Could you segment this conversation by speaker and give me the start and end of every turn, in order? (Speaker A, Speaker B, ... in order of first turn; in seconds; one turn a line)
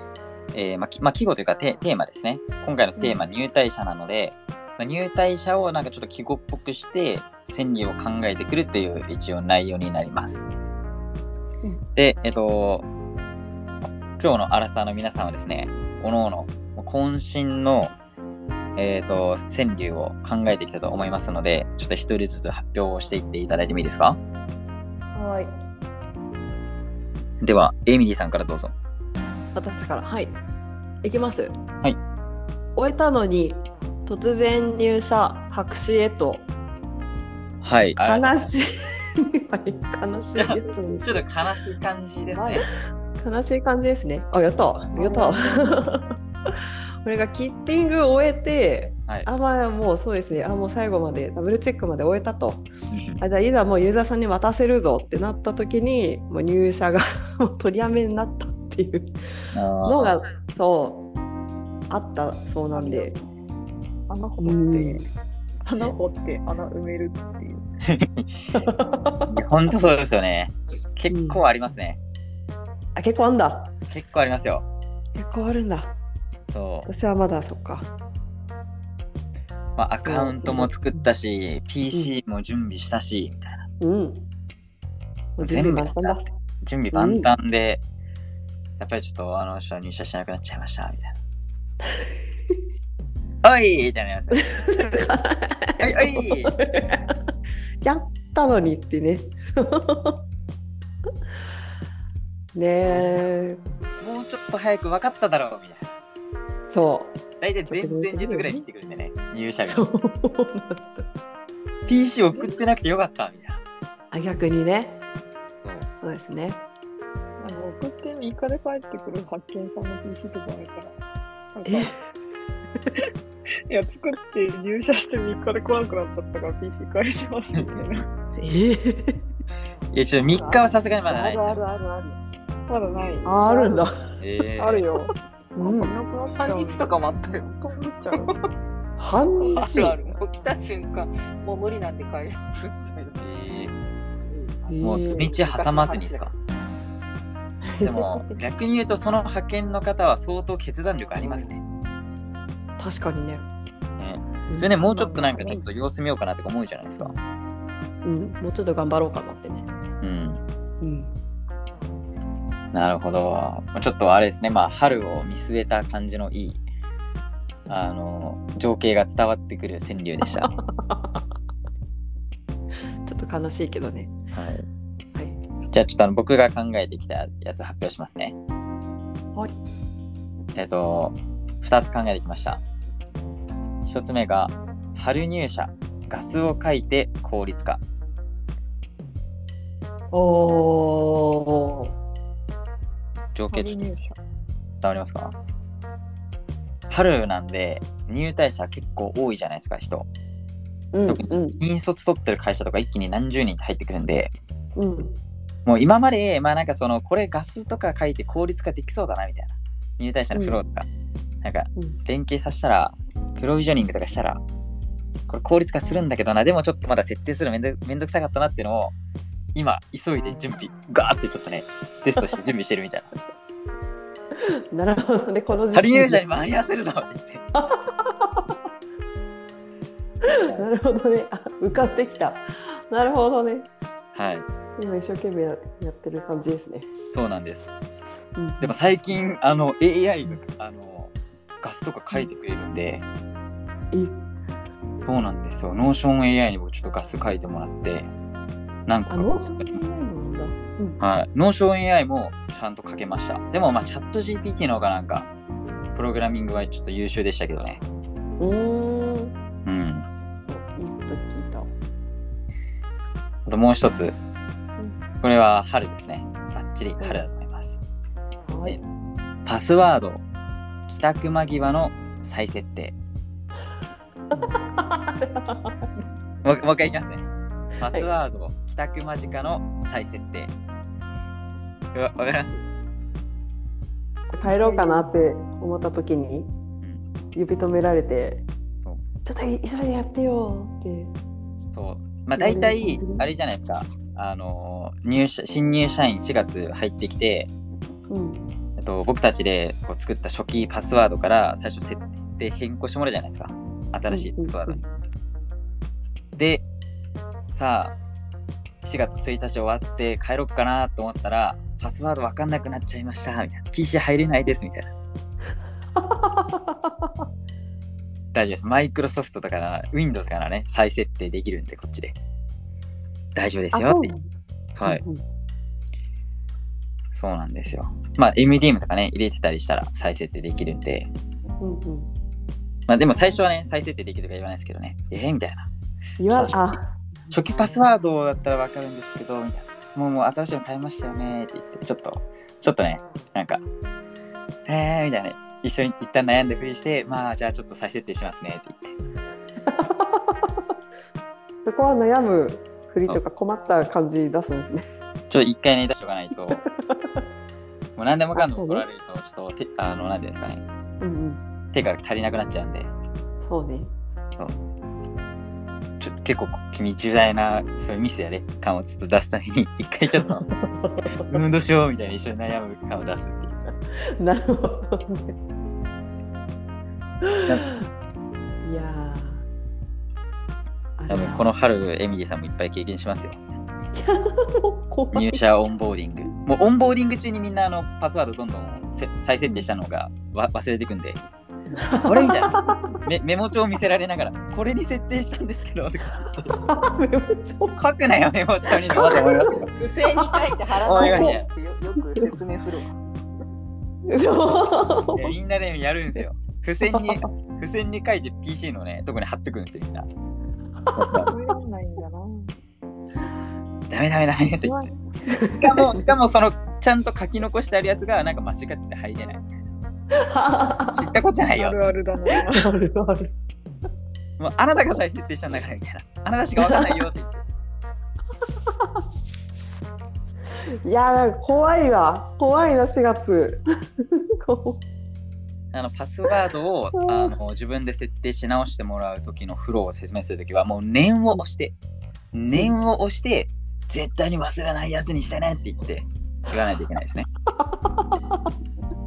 Speaker A: 0.5-10.4
Speaker A: 12.0-12.8
Speaker A: 13.8-17.9
Speaker A: 18.8-24.2
Speaker B: 25.1-25.5
Speaker A: 27.4-28.7
Speaker B: 29.5-30.4
Speaker B: 31.0-31.6
Speaker B: 32.8-36.5
Speaker A: 37.6-38.5
Speaker B: 38.0-41.3
Speaker A: 40.4-42.7
Speaker B: 42.3-46.0
Speaker C: 45.0-45.6
Speaker B: 47.0-52.7
Speaker A: 52.9-53.2
Speaker B: 53.2-59.1
Speaker A: 59.5-60.2
Speaker B: 59.8-61.1
Speaker B: 61.9-63.2
Speaker C: 62.7-63.5
Speaker C: 64.1-65.1
Speaker B: 64.4-65.1
Speaker C: 65.7-67.7
Speaker A: 67.8-68.5
Speaker B: 68.5-69.4
Speaker A: 69.3-72.0
Speaker B: 71.1-71.4
Speaker B: 73.0-73.7
Speaker A: 73.9-74.7
Speaker B: 75.2-76.0
Speaker A: 76.5-76.9
Speaker B: 76.9-77.9
Speaker A: 79.8-83.7
Speaker B: 80.0-81.1
Speaker B: 83.8-84.2
Speaker B: 85.4-86.3
Speaker A: 85.4-87.8
Speaker B: 86.9-87.3
Speaker A: 88.8-91.2
Speaker B: 91.9-92.5
Speaker A: 93.4-94.8
Speaker B: 94.5-97.2
Speaker A: 95.8-96.5
Speaker B: 97.8-100.2
Speaker B: 102.5-103.6
Speaker A: 104.0-105.9
Speaker B: 106.7-108.6
Speaker A: 107.4-109.8
Speaker B: 109.7-111.1
Speaker A: 111.9-113.6
Speaker B: 114.1-115.0
Speaker B: 116.0-116.6
Speaker C: 117.4-121.0
Speaker C: 121.5-122.1
Speaker B: 121.7-122.0
Speaker C: 123.7-128.1
Speaker A: 127.5-127.9
Speaker B: 128.4-129.2
Speaker A: 129.9-131.6
Speaker D: 130.2-132.2
Speaker C: 132.7-133.8
Speaker B: 133.2-134.2
Speaker A: 134.2-134.8
Speaker C: 134.6-138.3
Speaker B: 135.6-135.9
Speaker D: 135.7-137.5
Speaker B: 139.0-140.0
Speaker D: 139.4-143.2
Speaker C: 139.7-140.2
Speaker A: 143.2-143.7
Speaker D: 144.2-146.3
Speaker B: 144.7-145.4
Speaker A: 144.8-146.3
Speaker B: 147.6-148.3
Speaker A: 147.8-151.6
Speaker B: 151.2-151.5
Speaker B: 152.8-153.5
Speaker A: 154.0-157.2
Speaker B: 154.5-155.7
Speaker C: 154.9-155.3
Speaker B: 158.0-159.7
Speaker A: 160.0-160.4
Speaker B: 160.8-161.1
Speaker A: 162.7-166.6
Speaker A: 167.7-170.5
Speaker B: 170.2-171.2
Speaker B: 173.1-174.1
Speaker A: 174.3-174.7
Speaker A: 175.7-178.3
Speaker A: 180.6-182.6
Speaker A: 183.9-187.8
Speaker B: 190.1-191.9
Speaker A: 193.3-194.0
Speaker C: 193.5-194.2
Speaker A: 194.8-195.4
Speaker A: 196.9-200.1
Speaker B: 200.9-201.6
Speaker A: 201.1-204.3
Speaker B: 204.8-205.2
Speaker A: 205.7-210.9
Speaker B: 210.3-210.6
Speaker A: 211.4-214.4
Speaker A: 215.3-218.9
Speaker A: 219.6-223.1
Speaker B: 224.3-226.2
Speaker A: 225.7-227.4
Speaker B: 227.5-228.5
Speaker B: 230.2-233.7
Speaker A: 230.2-230.7
Speaker A: 234.1-234.5
Speaker B: 234.8-236.9
Speaker A: 237.1-237.8
Speaker B: 238.4-238.8
Speaker A: 238.6-243.1
Speaker B: 243.9-244.2
Speaker A: 245.1-248.1
Speaker A: 248.9-249.8
Speaker B: 249.1-251.0
Speaker A: 251.0-255.3
Speaker A: 255.9-257.8
Speaker B: 258.4-259.3
Speaker A: 259.7-260.1
Speaker B: 260.5-261.7
Speaker A: 263.5-264.2
Speaker A: 265.2-267.8
Speaker B: 267.0-267.2
Speaker B: 268.5-268.8
Speaker A: 269.4-270.2
Speaker A: 270.9-273.0
Speaker B: 274.3-276.0
Speaker A: 276.4-277.2
Speaker A: 277.8-280.5
Speaker A: 281.9-282.6
Speaker B: 284.3-286.5
Speaker C: 284.4-285.1
Speaker B: 287.4-288.4
Speaker B: 289.2-291.1
Speaker A: 291.7-297.5
Speaker B: 292.4-293.3
Speaker B: 298.1-298.4
Speaker A: 298.8-304.9
Speaker B: 304.1-304.8
Speaker A: 306.4-306.6
Speaker A: 307.5-307.9
Speaker A: 308.8-314.9
Speaker B: 315.9-317.1
Speaker A: 318.3-322.1
Speaker A: 323.4-324.1
Speaker B: 323.7-324.3
Speaker A: 324.8-325.0
Speaker B: 324.9-325.2
Speaker A: 327.1-331.1
Speaker B: 331.6-332.1
Speaker A: 332.9-335.7
Speaker B: 336.2-337.9
Speaker A: 336.3-336.8
Speaker A: 337.3-343.6
Speaker A: 344.7-349.0
Speaker B: 349.6-350.7
Speaker B: 351.6-354.9
Speaker A: 355.3-356.6
Speaker B: 356.5-357.3
Speaker A: 358.0-360.6
Speaker B: 358.4-358.9
Speaker B: 361.0-361.4
Speaker A: 361.7-362.9
Speaker B: 363.4-363.9
Speaker A: 366.0-370.5
Speaker B: 370.1-371.4
Speaker A: 371.2-373.6
Speaker B: 374.0-375.3
Speaker B: 377.2-377.9
Speaker B: 378.6-379.5
Speaker B: 381.0-381.5
Speaker A: 381.1-383.4
Speaker B: 383.9-385.4
Speaker A: 385.1-391.2
Speaker B: 391.7-393.0
Speaker A: 392.0-396.6
Speaker B: 396.6-397.8
Speaker A: 397.8-399.7
Speaker B: 398.7-401.4
Speaker D: 399.7-402.9
Speaker A: 400.8-401.5
Speaker B: 402.1-402.3
Speaker B: 404.1-405.3
Speaker A: 405.1-410.1
Speaker B: 406.8-407.2
Speaker A: 410.9-411.3
Speaker C: 411.3-412.5
Speaker A: 413.9-414.9
Speaker C: 414.6-414.9
Speaker B: 415.2-416.1
Speaker A: 415.5-419.6
Speaker B: 420.1-421.1
Speaker A: 420.9-421.8
Speaker C: 421.6-422.7
Speaker B: 422.3-423.3
Speaker A: 424.4-427.4
Speaker B: 426.6-427.0
Speaker B: 430.8-434.8
Speaker A: 435.7-441.8
Speaker A: 442.3-447.3
Speaker B: 447.6-448.5